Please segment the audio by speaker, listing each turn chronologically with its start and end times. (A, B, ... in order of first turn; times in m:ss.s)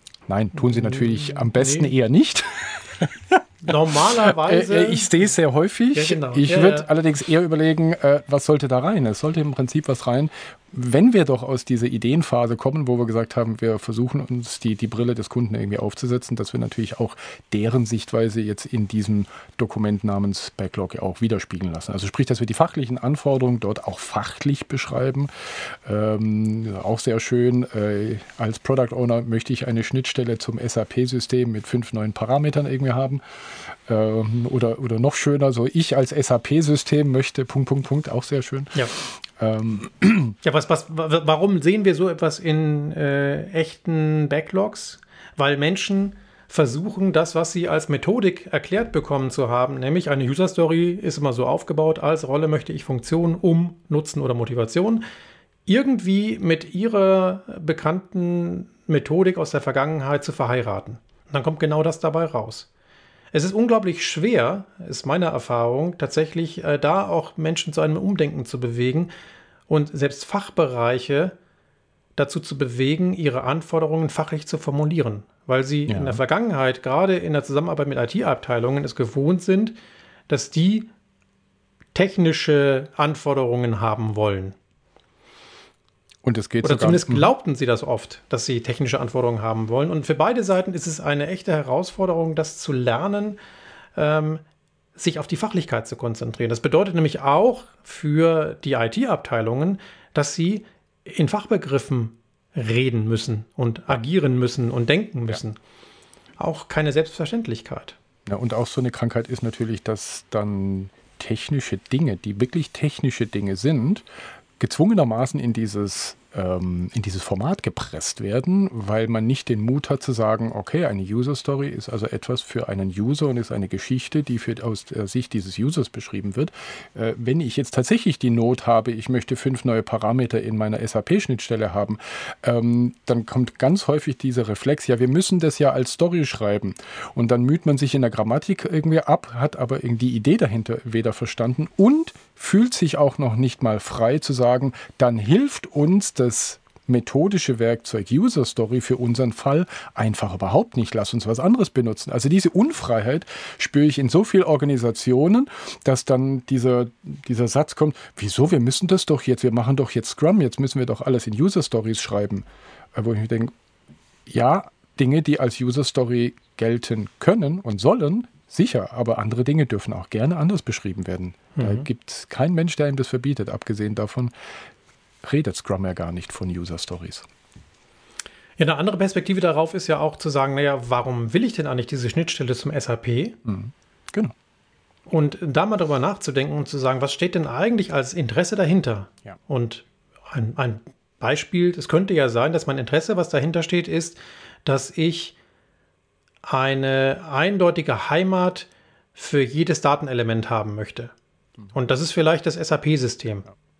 0:00.3-0:40.4 A
0:00.8-0:01.9 B
0:03.6-0:05.3 B
0:05.9-0:06.9 B
0:40.4-0:55.0 B
0:55.7-1:02.7 B
1:03.3-1:09.1 B
1:09.7-1:11.4 B
1:12.2-1:19.8 B
1:15.9-1:16.2 A
1:20.3-1:20.9 B
1:21.9-1:24.5 B
1:26.2-1:27.3 A
1:26.6-1:33.4 B
1:34.0-1:34.4 B
1:35.0-1:45.6 B
1:46.4-1:48.0 B
1:48.2-1:54.0 A
1:54.6-2:43.5 A
2:44.3-2:54.3 A
2:51.5-2:51.8 B
2:55.2-2:57.2 A
2:58.6-3:03.4 B
3:03.4-3:04.3 A
3:05.1-3:15.3 B
3:16.4-3:21.1 B
3:21.7-3:23.5 B